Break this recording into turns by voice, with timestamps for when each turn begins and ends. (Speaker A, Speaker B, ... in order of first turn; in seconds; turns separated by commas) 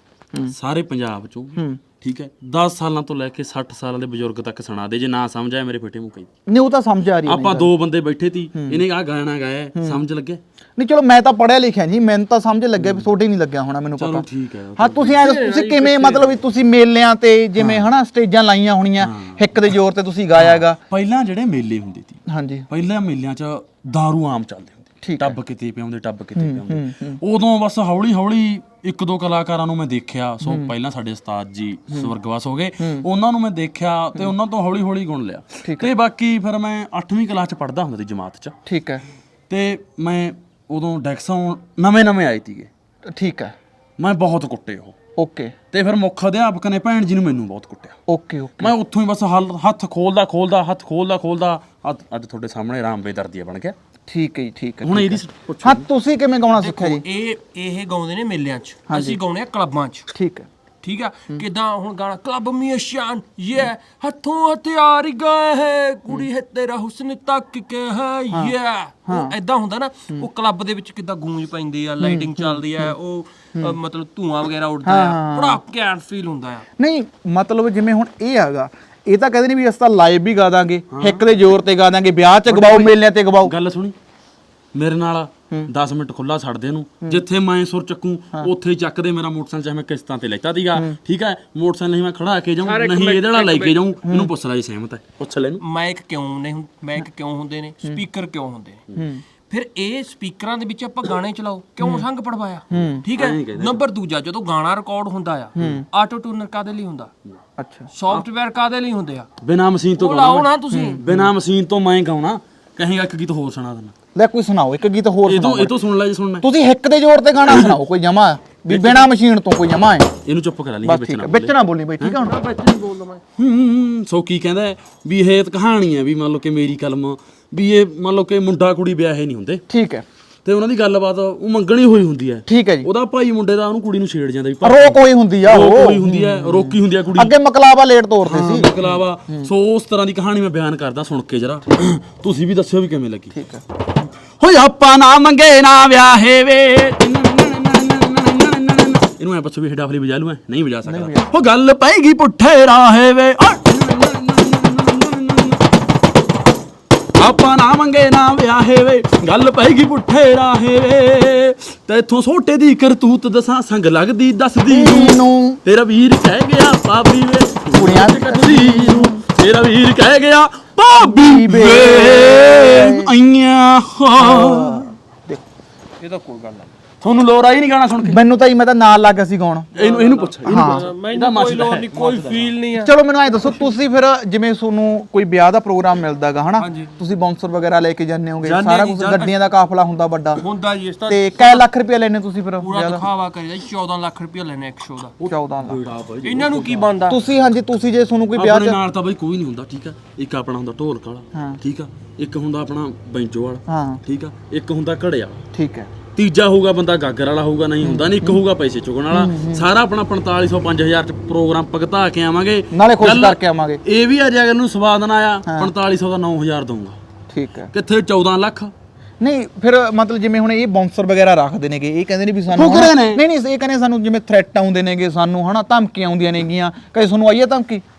Speaker A: 0.5-6.3, Speaker B: 1.6-1.8, Speaker B: 6.5-7.7, Speaker A: 7.2-10.4, Speaker B: 8.5-8.8, Speaker B: 10.8-14.2, Speaker A: 12.8-13.1, Speaker A: 14.0-15.2, Speaker B: 14.8-20.8, Speaker C: 15.2-16.4, Speaker A: 17.6-17.9, Speaker A: 19.0-19.4, Speaker A: 20.4-38.5, Speaker B: 22.3-22.7, Speaker B: 25.0-25.4, Speaker B: 26.4-27.2, Speaker B: 30.4-30.7, Speaker B: 32.8-33.1, Speaker B: 35.6-35.9, Speaker B: 38.6-39.0, Speaker A: 39.5-42.7, Speaker B: 43.1-43.5, Speaker A: 44.0-45.0, Speaker B: 45.1-45.5, Speaker A: 45.7-48.0, Speaker B: 48.1-48.7, Speaker A: 48.6-53.8, Speaker B: 54.1-57.0, Speaker A: 54.8-55.8, Speaker C: 56.6-60.1, Speaker B: 58.9-59.2, Speaker B: 60.1-60.5, Speaker C: 60.8-76.6, Speaker B: 69.1-69.3, Speaker B: 72.0-73.0, Speaker B: 74.8-75.6, Speaker B: 76.8-83.5, Speaker A: 80.9-81.2, Speaker A: 82.5-82.9, Speaker A: 83.4-83.9, Speaker A: 84.7-95.6, Speaker C: 92.6-93.8, Speaker B: 94.0-94.3, Speaker C: 95.6-98.8, Speaker B: 98.9-99.2, Speaker C: 99.5-107.1, Speaker B: 101.8-102.1, Speaker B: 102.7-103.0, Speaker A: 102.7-103.8, Speaker B: 105.5-105.8, Speaker B: 107.6-108.2, Speaker C: 107.9-109.3, Speaker A: 109.4-113.9, Speaker C: 110.0-111.0, Speaker B: 110.7-111.3, Speaker B: 114.1-115.8, Speaker A: 115.2-116.5, Speaker B: 116.4-120.1, Speaker A: 117.5-117.7, Speaker A: 118.7-119.1, Speaker A: 120.2-122.1, Speaker B: 120.8-122.4, Speaker C: 122.1-123.2, Speaker A: 123.4-129.6, Speaker B: 129.7-130.0, Speaker A: 130.4-137.3, Speaker B: 132.5-132.9, Speaker B: 134.6-139.5, Speaker A: 138.2-143.3, Speaker B: 143.3-143.6, Speaker A: 144.4-155.6, Speaker B: 150.8-151.3, Speaker A: 157.2-174.9, Speaker B: 164.7-165.6, Speaker B: 167.8-169.2, Speaker B: 170.9-173.1, Speaker B: 174.2-175.4, Speaker C: 176.0-176.7, Speaker A: 177.0-178.2, Speaker B: 178.1-179.7, Speaker A: 179.7-182.5, Speaker C: 179.7-182.9, Speaker B: 180.4-180.9, Speaker B: 182.8-190.4, Speaker C: 186.6-186.9, Speaker C: 188.4-189.3, Speaker C: 190.4-191.7, Speaker B: 191.1-193.1, Speaker C: 192.6-195.1, Speaker A: 195.2-196.9, Speaker B: 195.2-195.8, Speaker C: 196.2-197.2, Speaker B: 197.1-198.8, Speaker A: 198.3-205.4, Speaker B: 201.3-201.6, Speaker B: 203.7-204.0, Speaker B: 205.5-205.9, Speaker A: 206.2-217.0, Speaker B: 207.8-208.4, Speaker B: 209.1-209.7, Speaker B: 212.7-213.8, Speaker B: 215.4-215.7, Speaker B: 217.3-217.7, Speaker A: 217.7-218.7, Speaker B: 219.2-227.8, Speaker A: 222.5-223.2